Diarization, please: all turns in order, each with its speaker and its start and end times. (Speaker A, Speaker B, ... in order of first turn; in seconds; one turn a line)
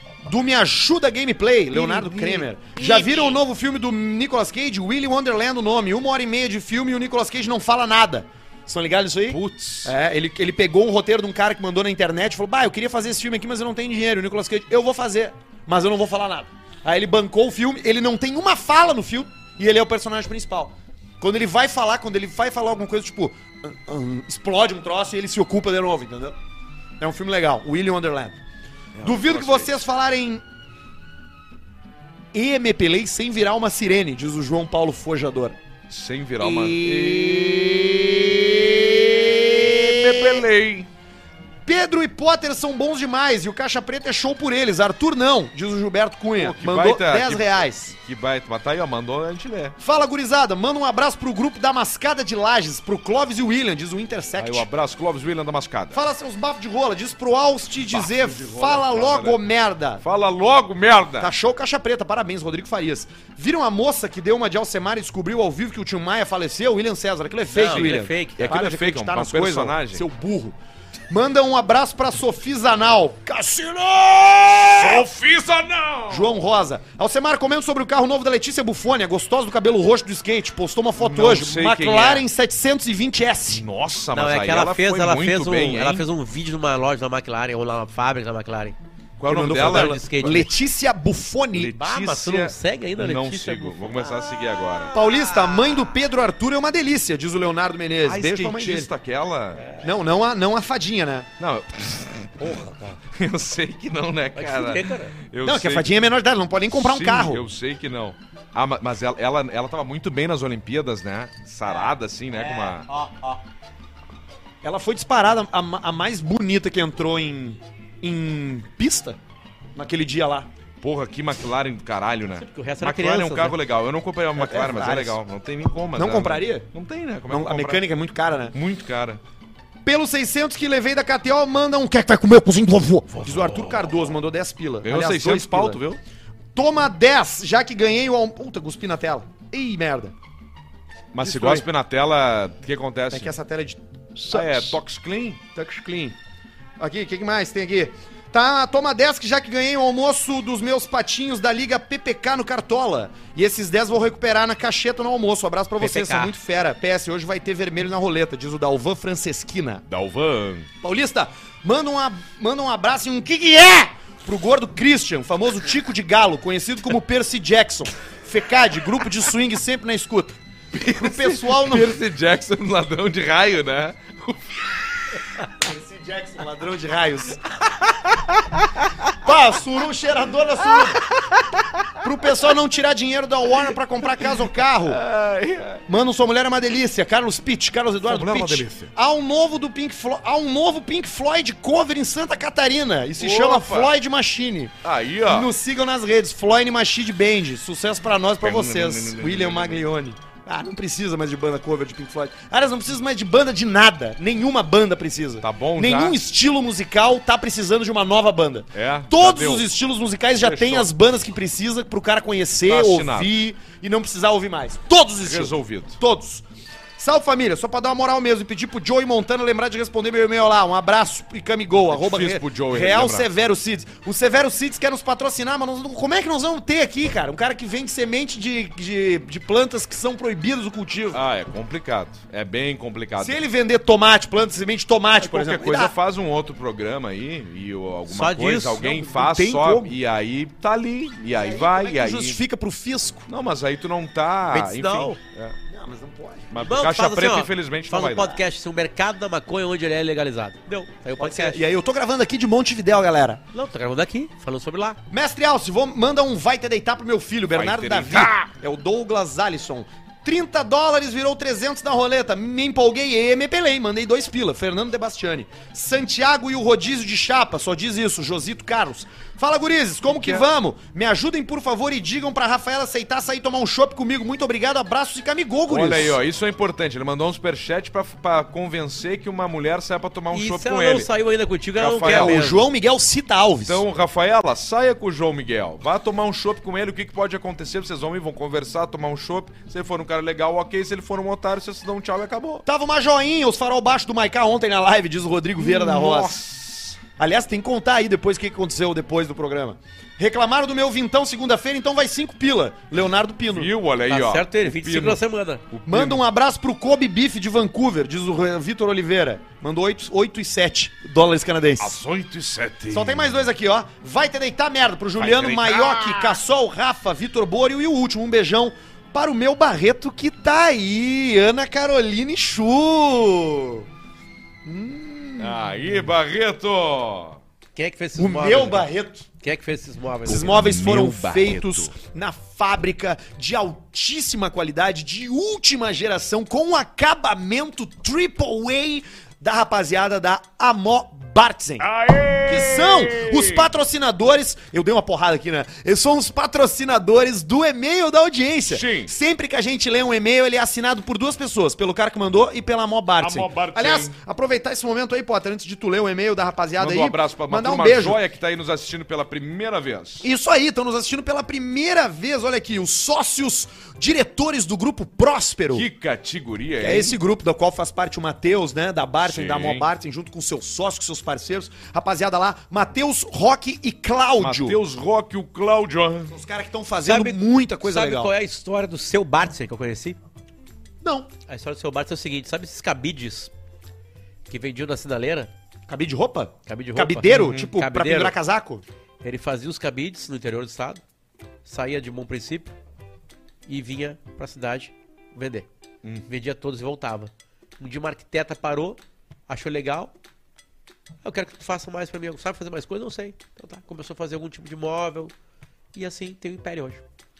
Speaker A: 0.2-26.4
Speaker B: 1.7-3.2
Speaker B: 9.3-9.9
Speaker A: 27.0-28.4
Speaker B: 28.9-29.8
Speaker A: 29.0-30.4
Speaker A: 32.3-35.6
Speaker B: 35.9-40.9
Speaker A: 36.4-40.5
Speaker A: 41.6-47.9
Speaker B: 46.4-49.8
Speaker A: 49.8-54.7
Speaker B: 54.4-56.0
Speaker A: 55.9-60.0
Speaker B: 57.9-59.4
Speaker B: 60.0-61.3
Speaker A: 61.2-70.6
Speaker C: 67.5-68.4
Speaker B: 68.4-70.0
Speaker A: 71.1-75.0
Speaker B: 74.6-76.4
Speaker A: 76.1-83.6
Speaker B: 81.0-82.2
Speaker B: 83.5-86.0
Speaker C: 84.1-88.8
Speaker B: 89.2-90.3
Speaker A: 89.2-91.8
Speaker C: 89.3-90.5
Speaker B: 91.5-94.9
Speaker C: 91.7-94.2
Speaker A: 94.9-98.9
Speaker B: 98.0-99.7
Speaker A: 99.8-101.3
Speaker B: 101.4-102.4
Speaker A: 102.4-103.0
Speaker B: 103.1-105.9
Speaker C: 104.3-105.2
Speaker A: 105.4-107.4
Speaker B: 106.7-112.9
Speaker C: 112.4-113.3
Speaker A: 114.6-119.2
Speaker A: 119.7-120.5
Speaker B: 120.8-127.8
Speaker C: 122.4-123.6
Speaker A: 124.3-125.2
Speaker A: 125.9-126.7
Speaker A: 127.3-128.5
Speaker B: 128.5-129.2
Speaker A: 129.8-135.8
Speaker B: 133.1-133.9
Speaker B: 134.8-136.0
Speaker A: 136.5-140.1
Speaker B: 141.1-143.3
Speaker A: 141.2-141.7
Speaker A: 143.1-144.8
Speaker B: 144.2-145.4
Speaker A: 145.5-146.2
Speaker A: 146.8-159.8
Speaker C: 155.8-156.3
Speaker B: 159.8-160.7
Speaker A: 160.8-172.0
Speaker B: 170.7-174.9
Speaker A: 175.6-177.4
Speaker B: 177.9-178.2
Speaker A: 179.2-181.1
Speaker B: 181.0-181.9
Speaker A: 182.0-185.0
Speaker B: 184.8-185.8
Speaker A: 185.9-216.4
Speaker B: 188.0-188.9
Speaker B: 193.2-193.9
Speaker B: 194.8-195.5
Speaker B: 198.4-199.8
Speaker B: 205.4-206.2
Speaker B: 208.7-209.7
Speaker B: 210.4-210.9
Speaker B: 212.7-213.3
Speaker B: 215.2-216.0
Speaker A: 217.0-231.2
Speaker B: 221.9-223.3
Speaker B: 231.1-233.4
Speaker A: 233.2-235.9
Speaker B: 235.2-242.4
Speaker C: 238.1-238.9
Speaker A: 238.8-239.9
Speaker A: 241.3-243.3
Speaker B: 243.3-245.6
Speaker C: 244.5-245.2
Speaker A: 245.7-246.5
Speaker B: 246.5-248.3
Speaker C: 246.6-251.6
Speaker A: 251.2-253.4
Speaker C: 253.5-255.0
Speaker A: 255.1-276.2
Speaker B: 257.5-258.5
Speaker B: 270.1-270.5
Speaker B: 275.7-281.1
Speaker C: 280.3-282.6
Speaker B: 281.8-282.4
Speaker A: 282.0-283.8
Speaker B: 283.6-292.6
Speaker A: 292.6-296.4
Speaker B: 295.6-297.0
Speaker A: 297.2-303.7
Speaker B: 303.5-306.2
Speaker C: 304.1-305.6
Speaker A: 305.9-311.9
Speaker B: 311.8-313.5
Speaker A: 312.9-323.9
Speaker B: 315.2-316.4
Speaker A: 324.6-325.7
Speaker B: 325.4-327.4
Speaker C: 327.8-328.9
Speaker A: 328.1-329.3
Speaker C: 329.4-330.6
Speaker A: 330.2-341.9
Speaker B: 330.5-331.9
Speaker B: 341.8-343.7
Speaker A: 342.4-358.2
Speaker B: 348.7-349.1
Speaker B: 353.2-354.2
Speaker B: 356.8-360.3
Speaker A: 360.2-365.9
Speaker B: 365.7-367.2
Speaker A: 366.8-374.8
Speaker B: 369.2-369.9
Speaker B: 374.4-376.3
Speaker A: 376.3-378.3
Speaker C: 377.1-380.2
Speaker A: 381.0-381.3
Speaker C: 381.5-383.5
Speaker C: 384.5-385.5
Speaker A: 385.9-388.8
Speaker C: 386.7-388.4
Speaker B: 387.3-387.7
Speaker C: 389.2-391.0
Speaker C: 391.6-392.7
Speaker C: 393.7-395.7
Speaker C: 396.3-400.1
Speaker C: 401.2-405.3
Speaker C: 405.9-407.0